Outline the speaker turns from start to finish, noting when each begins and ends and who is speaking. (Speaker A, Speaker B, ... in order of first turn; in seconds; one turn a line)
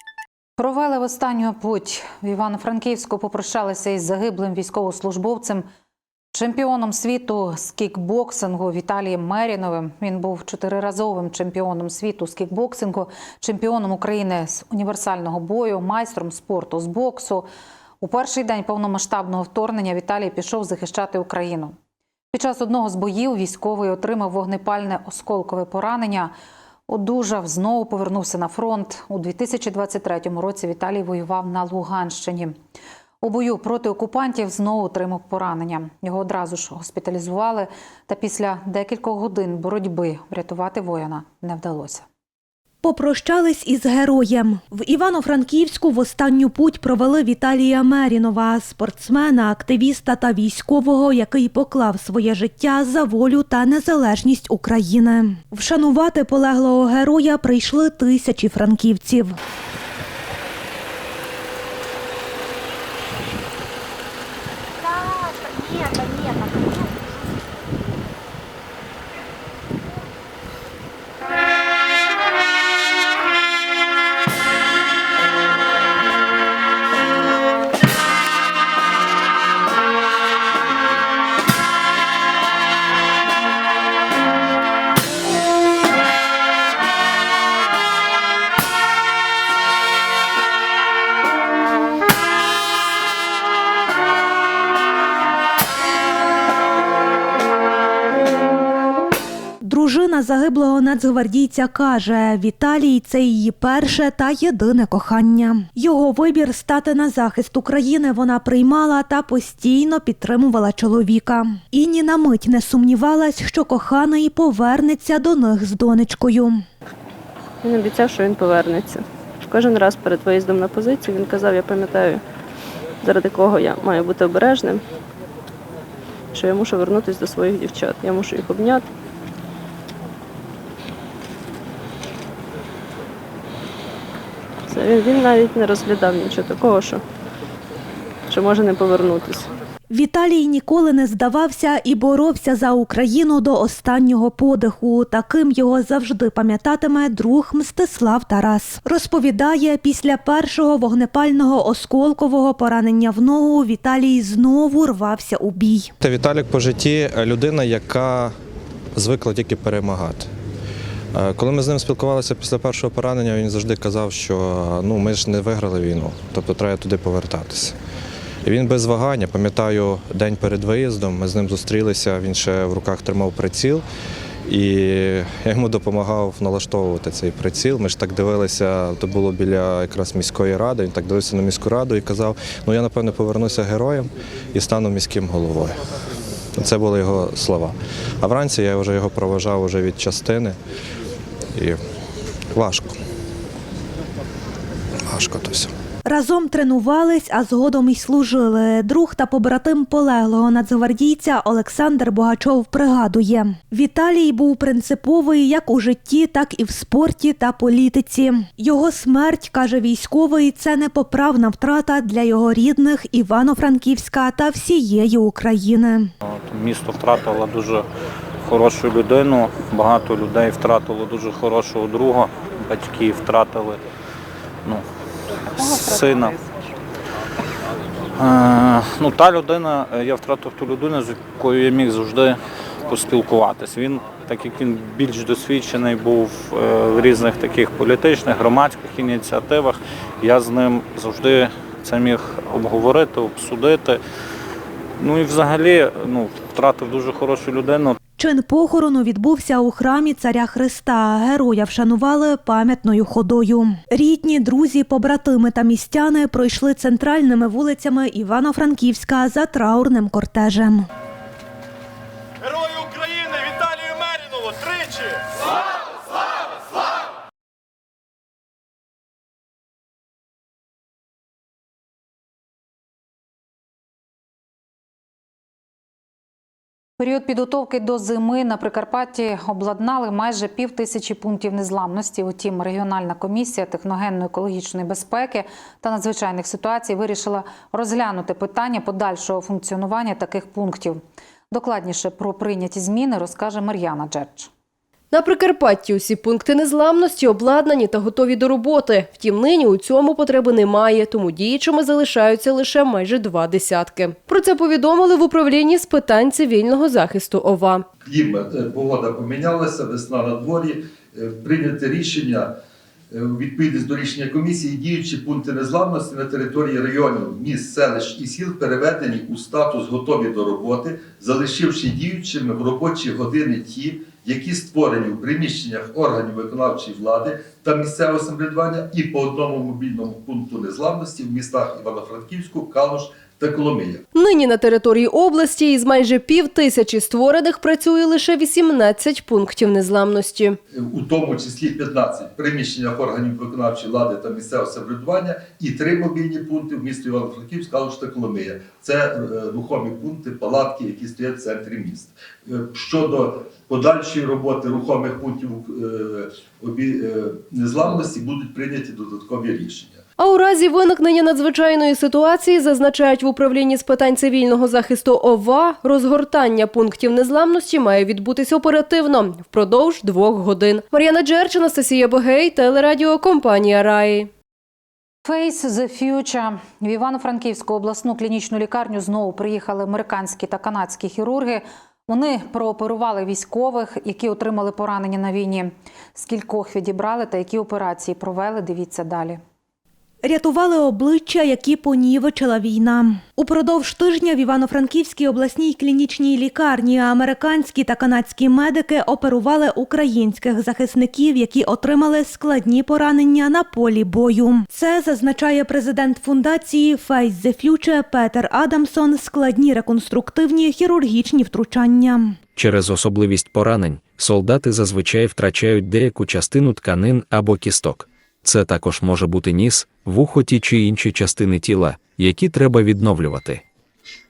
Speaker A: 0.6-5.7
Speaker A: 6.3-17.5
Speaker A: 18.0-21.8
Speaker A: 22.3-26.3
Speaker A: 26.9-32.6
Speaker A: 33.2-42.0
Speaker B: 42.8-59.4
Speaker B: 99.6-116.6
Speaker C: 117.6-122.2
Speaker C: 123.0-124.8
Speaker C: 126.3-128.8
Speaker C: 134.7-137.0
Speaker C: 138.3-139.5
Speaker B: 139.9-155.9
Speaker D: 156.0-158.3
Speaker D: 159.0-160.3
Speaker D: 161.1-167.8
Speaker D: 168.4-173.8
Speaker D: 174.5-185.8
Speaker D: 186.6-190.6
Speaker D: 192.5-192.9
Speaker D: 195.1-195.7
Speaker B: 196.1-216.1
Speaker E: 216.2-217.9
Speaker E: 218.4-223.8
Speaker E: 225.6-226.3
Speaker E: 228.2-244.0
Speaker E: 245.0-248.0
Speaker B: 248.2-260.9
Speaker A: 277.0-294.5
Speaker F: 295.1-307.9
Speaker G: 308.0-312.5
Speaker G: 313.1-334.0
Speaker F: 334.1-340.6
Speaker G: 340.7-360.0
Speaker F: 360.2-374.3
Speaker A: 375.2-389.4
Speaker B: 390.2-412.4
Speaker H: 412.6-423.6